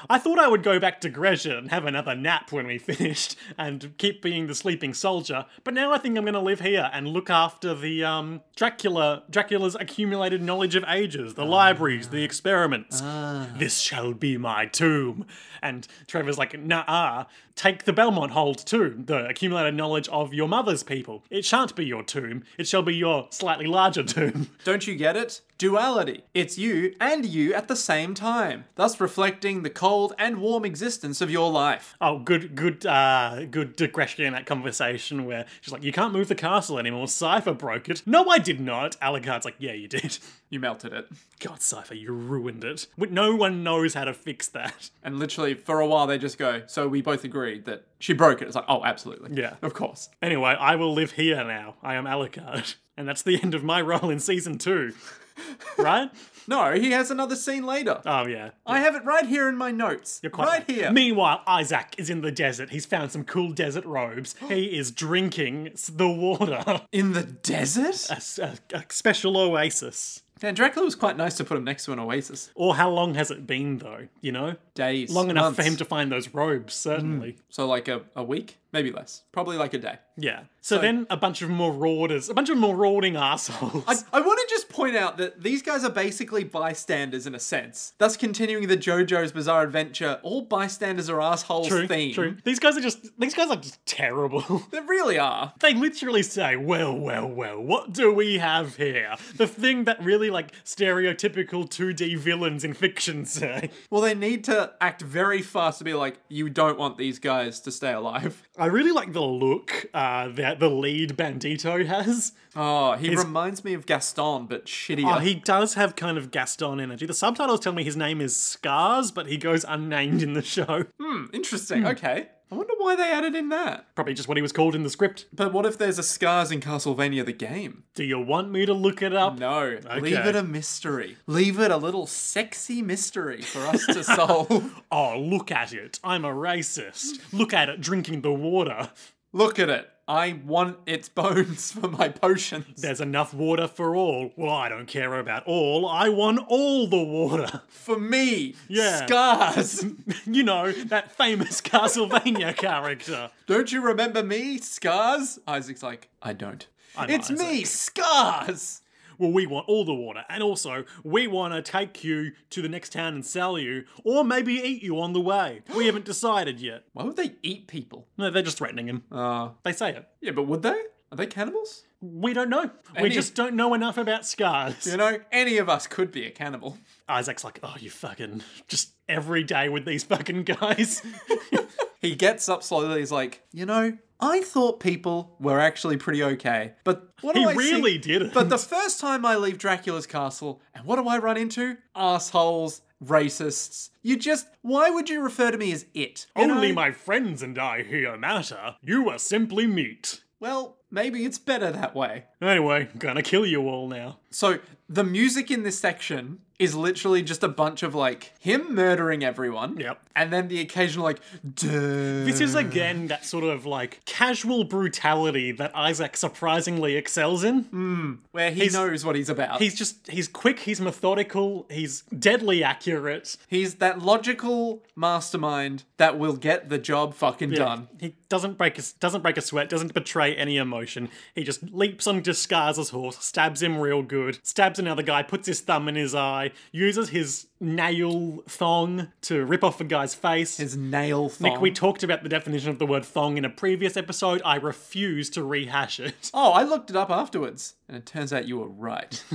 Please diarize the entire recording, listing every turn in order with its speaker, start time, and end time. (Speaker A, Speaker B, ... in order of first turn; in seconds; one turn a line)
Speaker A: 0.1-24.5
Speaker B: 11.4-12.3
Speaker B: 12.9-13.6
Speaker B: 24.6-31.9
Speaker A: 32.0-40.2
Speaker B: 40.5-41.1
Speaker A: 41.4-44.9
Speaker B: 45.0-50.1
Speaker A: 49.3-49.6
Speaker A: 50.2-55.0
Speaker A: 55.8-56.1
Speaker B: 56.5-58.0
Speaker A: 58.0-58.8
Speaker B: 58.7-61.0
Speaker A: 60.2-66.9
Speaker B: 66.9-68.1
Speaker A: 68.1-70.2
Speaker B: 70.4-72.5
Speaker A: 72.6-77.3
Speaker B: 74.8-75.8
Speaker B: 76.9-80.0
Speaker A: 80.2-84.0
Speaker B: 83.9-92.4
Speaker A: 91.6-94.7
Speaker B: 94.7-95.5
Speaker A: 95.6-103.8
Speaker B: 103.9-108.4
Speaker A: 108.6-112.3
Speaker B: 112.5-115.3
Speaker A: 115.0-120.9
Speaker B: 121.0-123.8
Speaker A: 124.0-125.3
Speaker B: 125.3-127.8
Speaker A: 128.0-130.4
Speaker B: 129.2-134.8
Speaker A: 133.7-138.9
Speaker B: 139.3-142.9
Speaker A: 142.8-147.7
Speaker B: 147.7-149.9
Speaker A: 148.7-149.2
Speaker A: 149.8-153.3
Speaker B: 153.5-158.8
Speaker A: 157.0-157.8
Speaker A: 159.2-166.8
Speaker B: 166.9-168.1
Speaker A: 168.2-169.1
Speaker B: 169.1-169.6
Speaker A: 169.6-170.1
Speaker B: 170.2-171.8
Speaker A: 172.0-174.9
Speaker B: 172.9-173.3
Speaker B: 174.8-176.8
Speaker A: 177.1-181.7
Speaker B: 182.0-196.8
Speaker A: 187.3-188.6
Speaker A: 196.4-200.2
Speaker B: 200.4-202.2
Speaker A: 202.4-204.2
Speaker B: 204.3-213.0
Speaker A: 212.1-217.7
Speaker B: 217.7-219.7
Speaker A: 218.6-218.9
Speaker A: 219.6-223.4
Speaker B: 223.5-227.9
Speaker A: 227.5-240.6
Speaker B: 240.6-241.8
Speaker A: 241.4-246.3
Speaker B: 246.3-249.2